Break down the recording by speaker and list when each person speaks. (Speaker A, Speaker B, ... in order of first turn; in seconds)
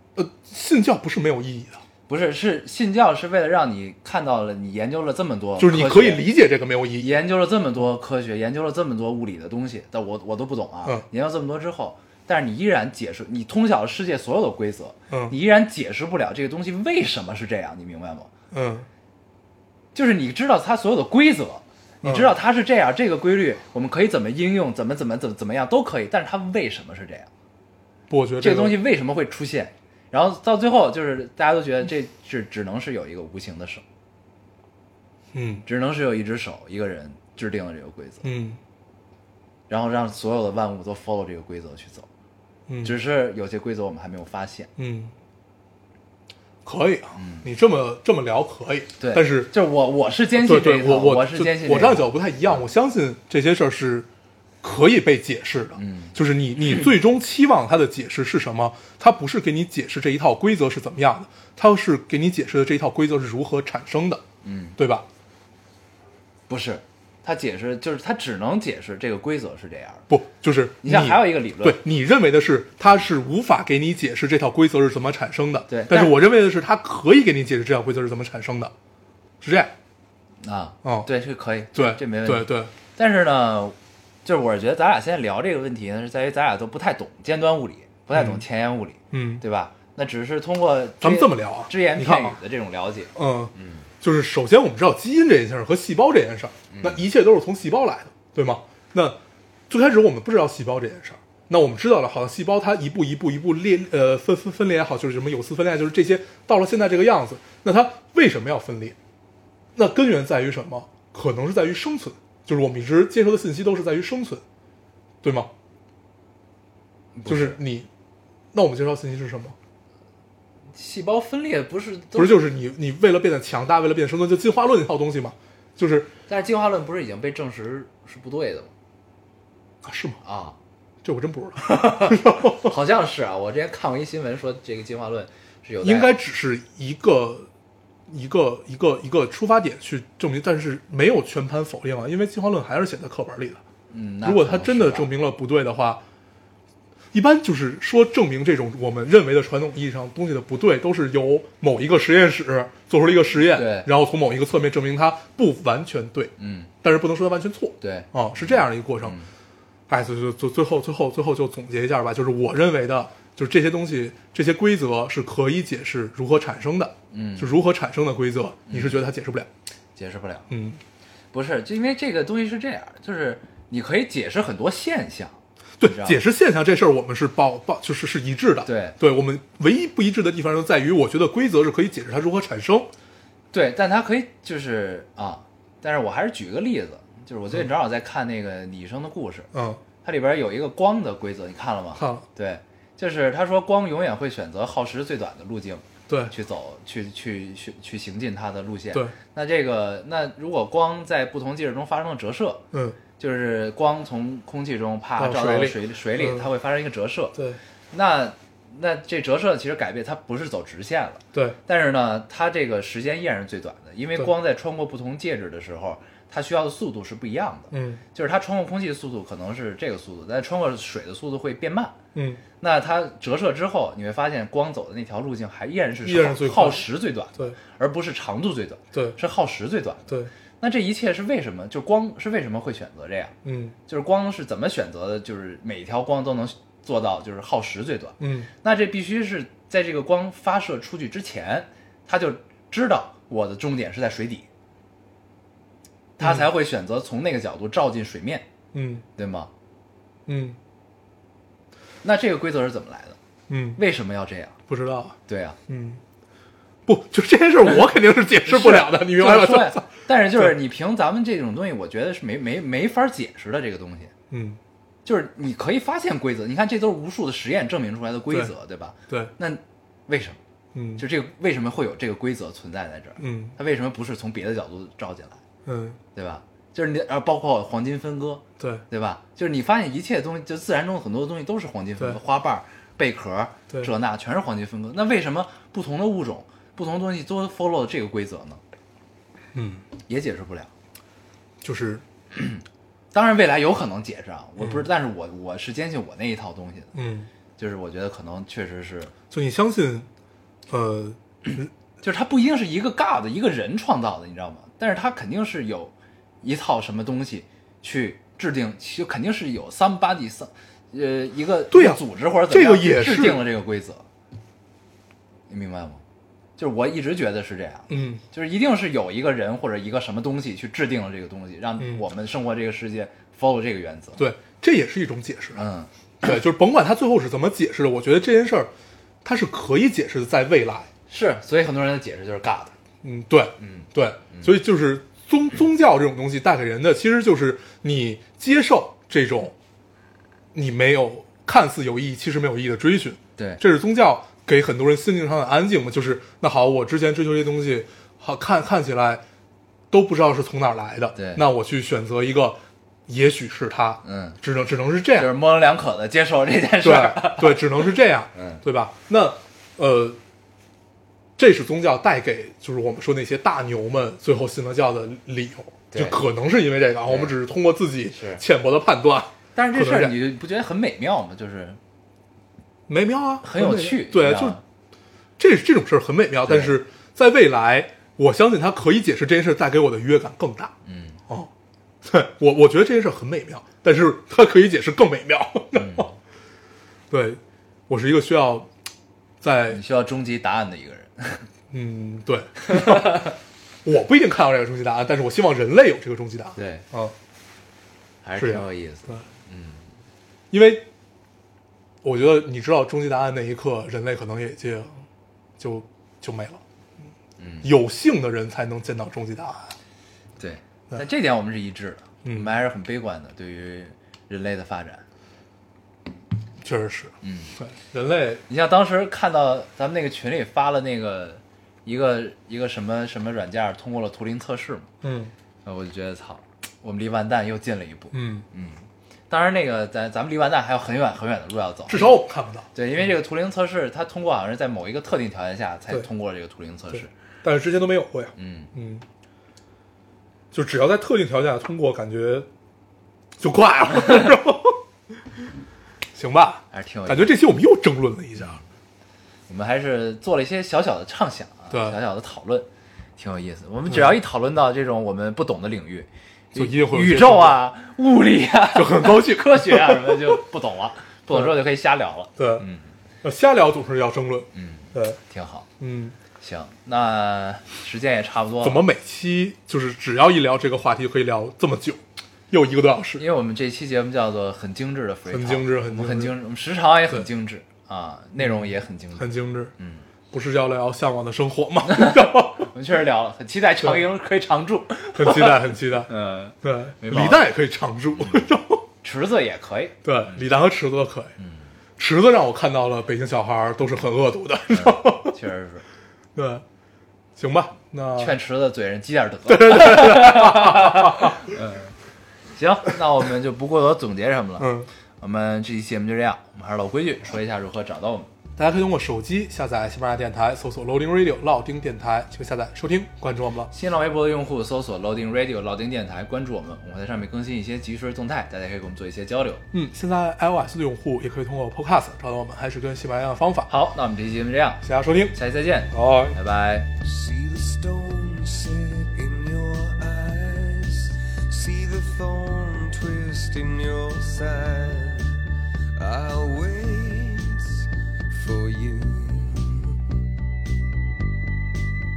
Speaker A: 0.1-1.8, 5.6-7.1, 18.5-18.9, 22.0-22.3, 28.1-28.8, 35.3-35.6, 38.2-38.6, 42.7-42.9, 44.8-45.1, 46.6-49.5, 50.4-54.1, 54.6-64.2, 64.8-65.0, 70.1-78.7, 79.4-79.7, 81.7-82.7, 88.1-88.4, 89.1-89.4, 91.0-92.4, 93.2-99.2, 99.7-109.0, 109.7-114.4, 115.2-115.5, 117.3-117.9, 118.5-119.5, 122.2-126.1, 129.8-130.2, 131.0-132.7, 135.8-137.5, 138.1-143.6, 144.2-146.0, 147.1-156.3, 156.8-159.2, 159.9-169.5, 170.5-170.8, 175.8-182.9, 189.5-189.8, 192.0-192.2, 202.7-203.0, 205.2-206.5, 217.7-218.0, 222.1-222.4, 226.0-226.9, 228.9-229.2, 233.4-233.8, 238.2-238.5, 248.7-249.0, 250.3-250.6, 253.5-253.8, 254.7-255.2, 255.7-256.0, 256.9-260.5, 264.3-264.6, 270.7-271.0, 273.2-273.6, 275.6-276.0, 278.6-278.8, 289.5-289.8, 291.6-292.0, 296.9-297.3, 299.3-300.1, 300.7-301.7, 311.7-313.4, 317.9-318.2, 324.2-325.6, 326.2-328.7, 329.2-330.9, 333.0-339.5, 340.5-349.2, 349.9-355.3, 356.8-360.2, 361.4-370.1, 372.9-374.6, 375.4-380.7, 382.0-386.1, 387.1-388.7, 389.4-389.8, 391.7-393.2, 393.8-397.1, 398.4-399.1, 400.5-400.9, 402.0-405.0, 405.6-406.6, 407.6-409.7, 412.2-412.5, 416.6-418.4, 425.0-425.3, 428.1-428.4, 431.9-432.7, 437.4-439.0, 440.5-442.5, 443.4-444.8, 446.1-448.6, 451.7-451.9, 456.6-457.6, 458.7-460.4, 462.4-462.6, 463.2-465.2, 465.8-466.1, 468.6-472.0, 472.5-473.2, 475.3-476.3, 479.2-479.7, 480.3-482.7, 485.1-486.1, 486.6-488.8, 490.0-491.3, 492.0-495.3, 496.3-496.6, 497.4-498.4, 499.5-501.4, 504.6-504.9, 508.6-513.7, 519.7-523.7, 524.8-525.4, 525.9-526.4
Speaker B: 2.1-6.2, 7.0-18.3, 19.9-27.3, 28.4-33.8, 35.6-38.2, 39.7-42.1, 42.8-44.7, 47.1-47.5, 49.0-52.0, 55.8-56.1, 64.4-64.8, 66.5-70.1, 70.8-71.8, 75.7-76.1, 80.4-93.8, 96.7-97.0, 117.2-117.6, 120.7-122.4, 126.3-128.7, 130.2-130.6, 131.6-136.1, 143.9-145.1, 153.5-153.9, 156.4-156.7, 157.8-159.3, 167.1-167.5, 168.7-169.0, 169.9-170.5, 171.3-176.2, 178.6-179.0, 183.5-189.5, 190.0-202.6, 203.2-207.4, 207.9-222.0, 222.6-233.3, 233.9-244.5, 246.2-248.4, 249.2-249.5, 252.0-253.2, 253.8-254.6, 255.3-255.6, 258.4-264.1, 265.0-270.4, 271.0-275.4, 276.1-288.6, 290.1-290.7, 292.3-296.9, 297.6-299.1, 302.0-314.0, 315.5-316.0, 316.6-324.2, 325.5-325.9, 331.1-332.8, 333.6-334.5, 351.1-351.4, 354.0-354.4, 355.1-357.8, 358.3-358.6, 365.9-366.2, 367.1-367.3, 368.1-368.4, 369.6-371.8, 373.4-374.6, 376.4-376.8, 380.9-381.2, 385.7-386.1, 389.7-391.5, 392.7-393.3, 396.6-396.9, 398.2-399.8, 407.4-407.7, 410.4-415.0, 417.2-417.5, 418.5-424.9, 425.6-432.1, 432.7-437.1, 438.4-438.7, 446.7-447.3, 449.5-462.9, 464.5-465.7, 466.4-468.9, 473.2-480.0, 481.9-487.4, 488.2-488.5, 489.0-490.4, 491.4-491.6, 494.7-495.8, 498.2-501.9, 502.5-508.3, 513.7-519.6, 523.7-526.9
Speaker C: 527.0-535.4, 536.0-540.0